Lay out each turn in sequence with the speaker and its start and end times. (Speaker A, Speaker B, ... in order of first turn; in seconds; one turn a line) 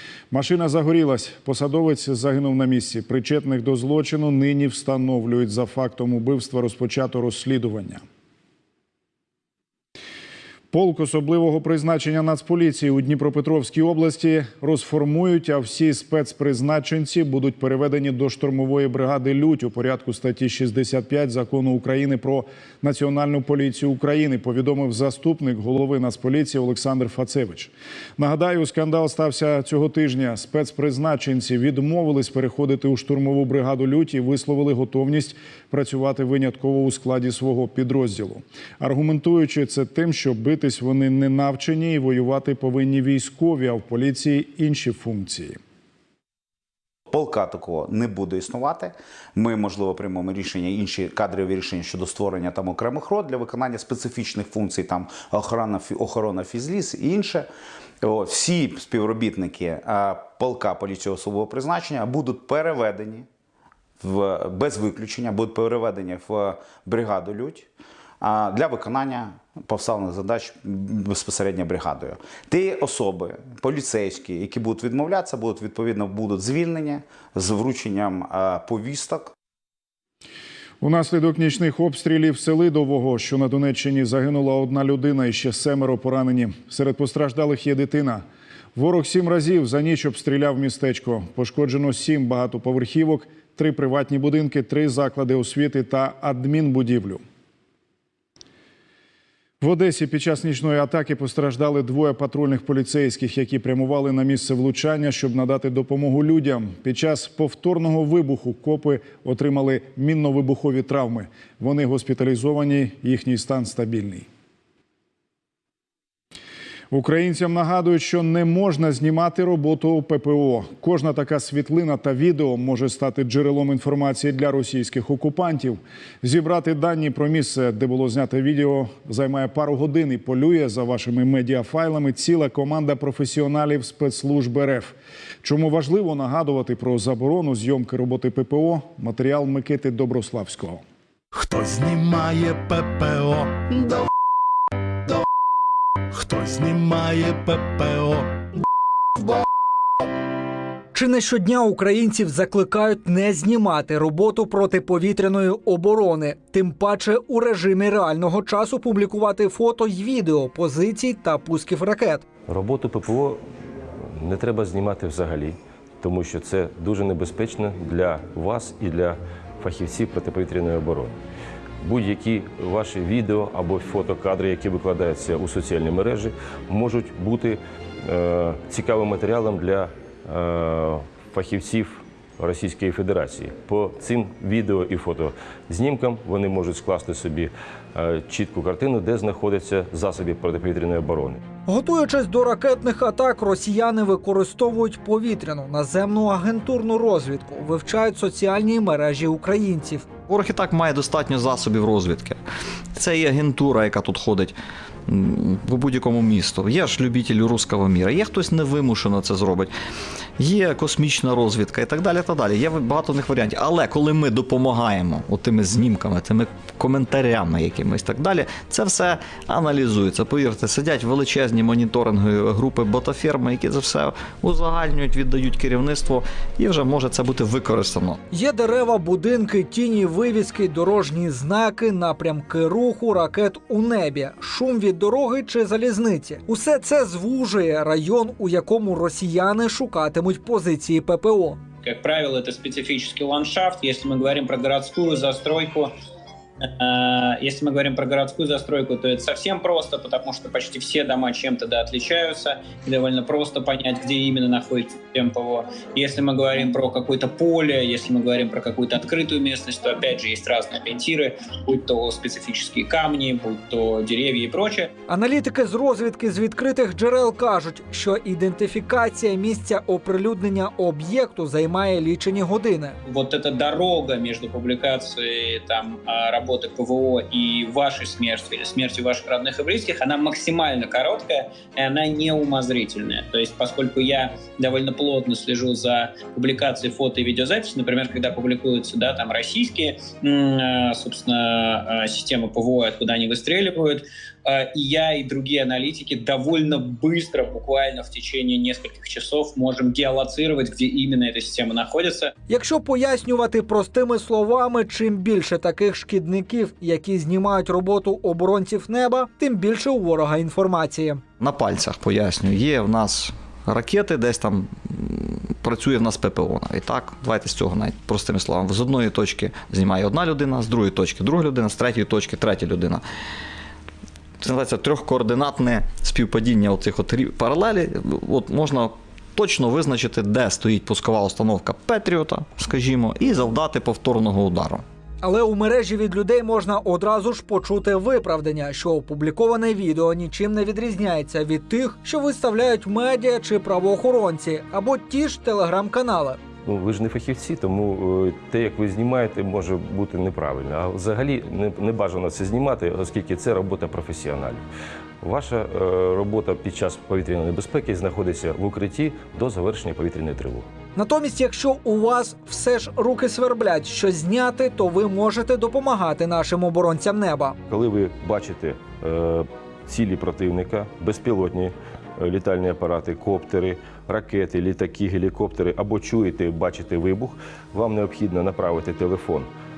Speaker A: 0.3-8.0
Speaker A: 10.7-45.6
Speaker B: 47.1-57.5
Speaker B: 58.0-63.3
Speaker B: 64.0-67.7
Speaker B: 68.2-79.3
Speaker A: 80.8-88.2
Speaker A: 88.8-97.2
Speaker A: 99.6-114.3
Speaker A: 116.9-140.8
Speaker C: 141.4-143.6
Speaker C: 146.2-148.3
Speaker D: 150.9-162.2
Speaker E: 162.5-163.4
Speaker E: 164.1-171.2
Speaker E: 171.8-191.4
Speaker D: 191.7-200.1
Speaker F: 200.3-202.4
Speaker F: 202.9-204.6
Speaker F: 205.1-209.7
Speaker F: 210.4-228.2
Speaker D: 228.3-241.6
Speaker G: 241.8-245.9
Speaker G: 246.7-264.9
Speaker D: 265.1-273.0
Speaker G: 273.1-302.3
Speaker D: 302.5-311.2
Speaker F: 311.4-323.0
Speaker F: 324.4-334.8
Speaker D: 335.2-346.4
Speaker E: 346.6-354.6
Speaker E: 355.2-360.7
Speaker D: 360.9-367.6
Speaker E: 367.7-379.5